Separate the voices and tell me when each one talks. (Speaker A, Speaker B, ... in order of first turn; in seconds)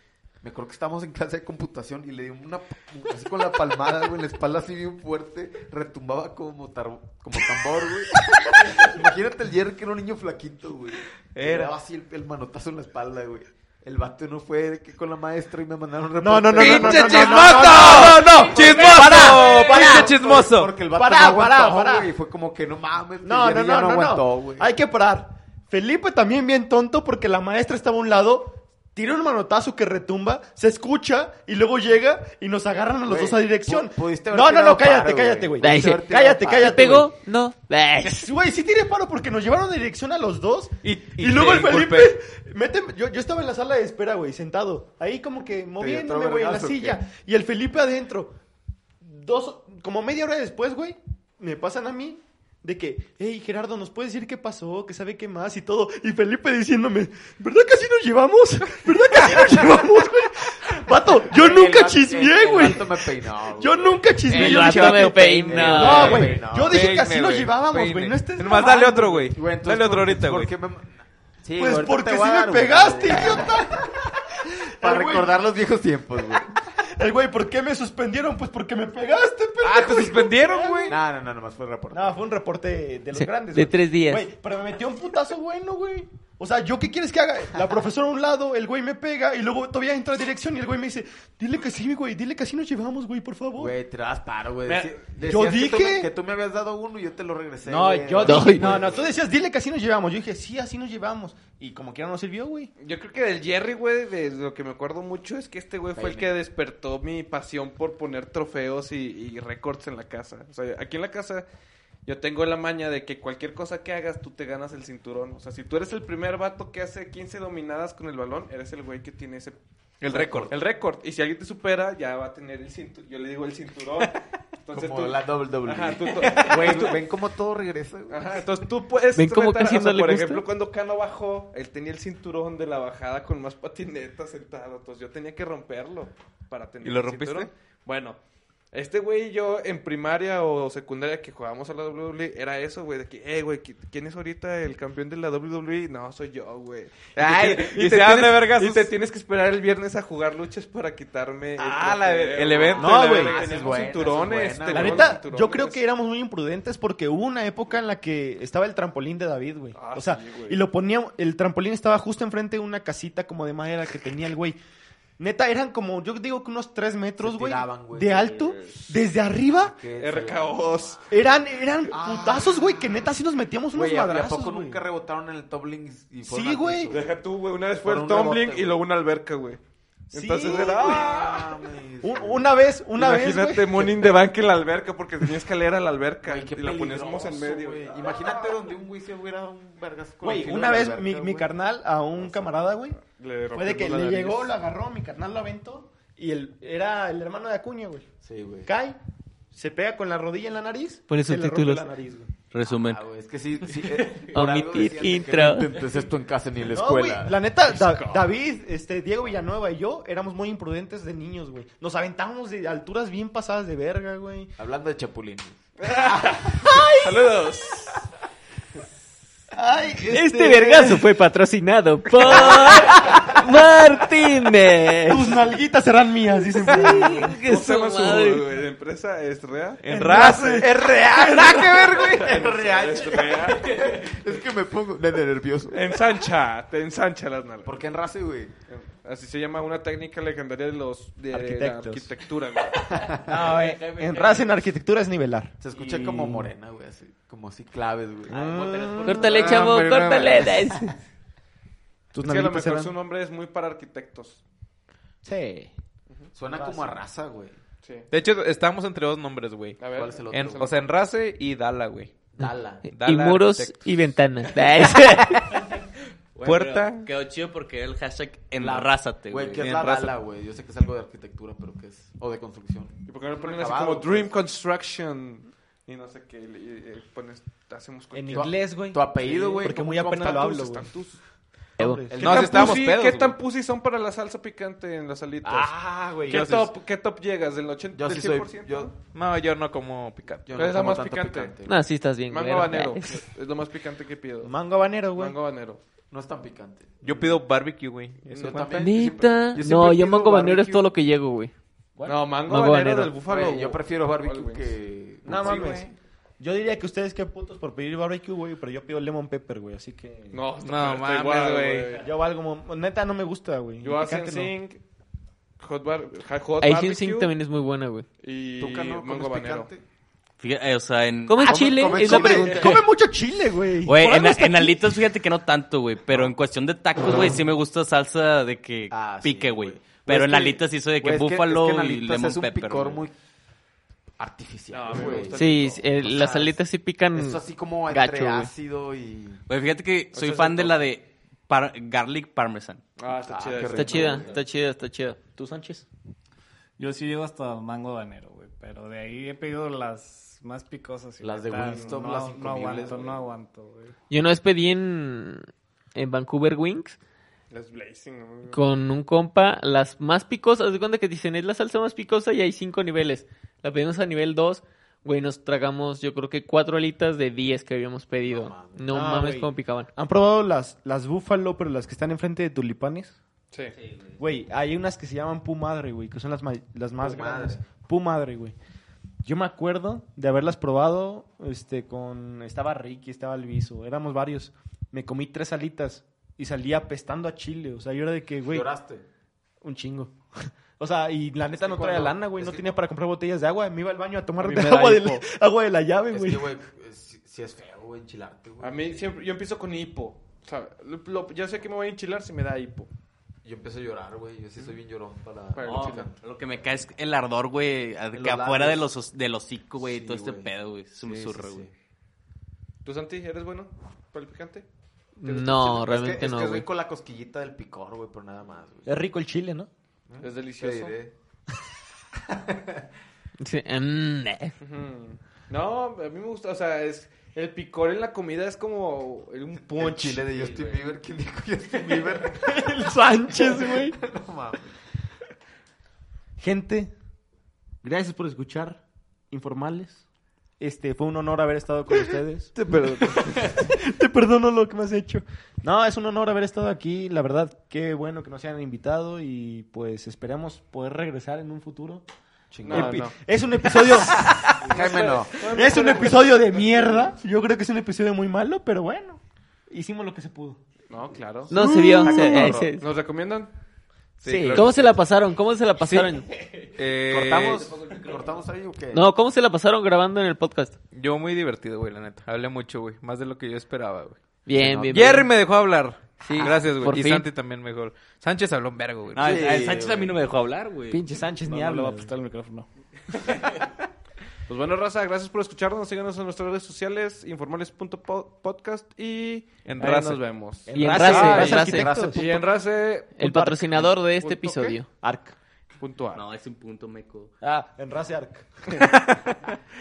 Speaker A: 0.4-24.7, 33.0-37.0, 45.8-47.0, 61.2-66.9, 69.3-73.6, 74.8-76.5, 80.9-82.1, 93.6-99.1, 105.9-106.3, 124.7-128.4, 151.6-155.2, 167.2-168.6, 169.5-171.0, 171.9-172.9, 173.7-177.1, 177.8-178.8, 180.4-182.4, 186.2-191.5, 192.2-192.4, 198.2-198.7, 202.6-207.4, 214.6-215.6, 231.0-235.9, 237.6-238.5, 245.6-249.0, 250.2-250.9, 256.3-257.6, 259.9-260.7, 262.4-262.8, 268.6-274.3, 278.3-279.9, 282.1-282.6, 287.9-288.9, 290.4-291.8, 296.1-297.4, 298.2-300.9, 303.2-305.9, 318.6-319.8, 321.4-322.9, 328.9-333.1, 334.2-336.6, 337.1-339.4, 343.2-344.4, 351.2-353.2, 368.2-368.9, 377.0-377.6, 388.4-389.0, 391.5-392.7, 396.1-399.0, 403.4-406.2, 408.1-408.9, 409.8-411.7, 415.7-418.9, 420.1-421.1, 422.3-422.8, 429.8-432.6, 433.3-434.7, 452.5-453.1, 454.6-455.4, 462.3-462.7, 467.0-469.1, 479.2-480.2, 491.6-492.3
Speaker B: 11.3-11.7, 16.6-20.7, 40.8-42.2, 65.9-70.5, 79.6-80.9, 120.0-120.5, 136.8-137.5, 147.2-148.9, 152.0-153.5, 229.8-230.7, 258.1-262.3, 262.9-264.1, 266.4-267.1, 269.6-270.1, 282.2-283.4, 286.3-286.6, 289.1-290.5, 297.0-298.9, 310.6-312.0, 464.2-464.9, 465.8-466.1, 466.7-467.7, 470.9-479.4, 489.6-491.7
Speaker C: 16.2-22.1, 23.2-37.1, 38.0-48.4, 49.0-69.3, 71.5-74.1, 74.6-75.3, 76.8-81.0, 81.9-93.8, 94.7-96.1, 97.6-102.7, 152.7-153.4, 154.7-164.6, 165.2-169.8, 171.1-174.8, 176.2-176.9, 180.1-181.5, 182.0-184.0, 190.2-193.0, 193.5-198.1, 198.7-199.0, 199.5-202.3, 206.6-214.5, 216.6-217.4, 219.5-221.1, 225.1-227.3, 229.9-231.2, 241.3-242.1, 243.1-246.5, 248.3-249.7, 252.1-252.9, 255.2-255.7, 256.5-257.0, 278.1-281.0, 281.8-282.5, 285.4-286.6, 294.4-295.4, 305.2-310.4, 312.0-314.5, 321.9-324.9, 345.4-345.9, 368.9-373.2, 374.2-378.5, 379.2-388.7, 389.6-396.5, 418.9-419.7, 432.3-434.0, 436.4-436.9, 437.8-440.0, 440.6-452.0, 452.6-454.3, 455.4-460.6, 461.6-462.6, 480.9-482.1, 490.7-492.5, 493.2-493.9, 494.9-495.4, 497.4-498.5
Speaker D: 35.6-38.3, 64.3-66.3, 83.2-84.3, 98.2-98.7, 129.1-130.4, 201.1-201.9, 204.0-205.7, 220.1-225.3, 226.7-228.4, 249.0-250.9, 262.4-265.6, 291.6-293.1, 298.7-301.5, 302.4-303.1, 316.6-318.1, 321.3-322.8, 335.3-338.5, 343.7-345.2, 354.1-357.0, 358.5-369.9, 415.2-416.7, 423.4-424.5, 461.5-462.9, 464.2-466.3, 468.9-470.8, 474.4-475.3, 476.2-477.3, 490.8-491.9, 493.2-494.9
Speaker E: 102.8-111.5, 112.0-127.0, 128.1-138.2, 138.7-155.8, 159.7-160.6, 170.0-171.1, 176.9-179.6, 180.1-181.4, 183.0-188.2, 193.0-194.5, 207.7-208.2, 215.8-218.0, 222.3-222.8, 226.6-233.8, 235.7-237.8, 238.7-243.1, 249.2-250.5, 252.2-254.4, 259.8-260.7, 273.1-278.6, 279.1-281.2, 282.2-285.8, 286.3-288.9, 290.5-291.5, 292.3-294.5, 295.1-295.8, 302.0-304.7, 305.3-305.8, 310.3-312.1, 313.8-314.8, 315.6-317.3, 318.2-319.7, 334.7-336.4, 340.2-340.7, 343.0-344.4, 351.6-352.0, 357.5-358.6, 394.4-395.2, 398.6-402.9, 405.5-406.1, 412.8-414.6, 415.2-415.8, 420.2-420.9, 424.6-430.7, 442.6-443.2, 452.6-453.1, 454.6-457.1, 460.9-463.5, 464.2-465.0, 484.5-491.6, 492.1-493.2, 494.2-494.8, 495.8-496.2, 498.7-499.4
Speaker F: 202.5-203.0, 243.5-244.5, 266.4-270.0, 320.4-321.8, 323.8-333.0, 339.5-342.8, 373.8-374.1, 405.6-411.7, 467.8-468.4, 479.1-481.0, 496.1-497.3
Speaker G: 346.8-353.9, 481.4-482.7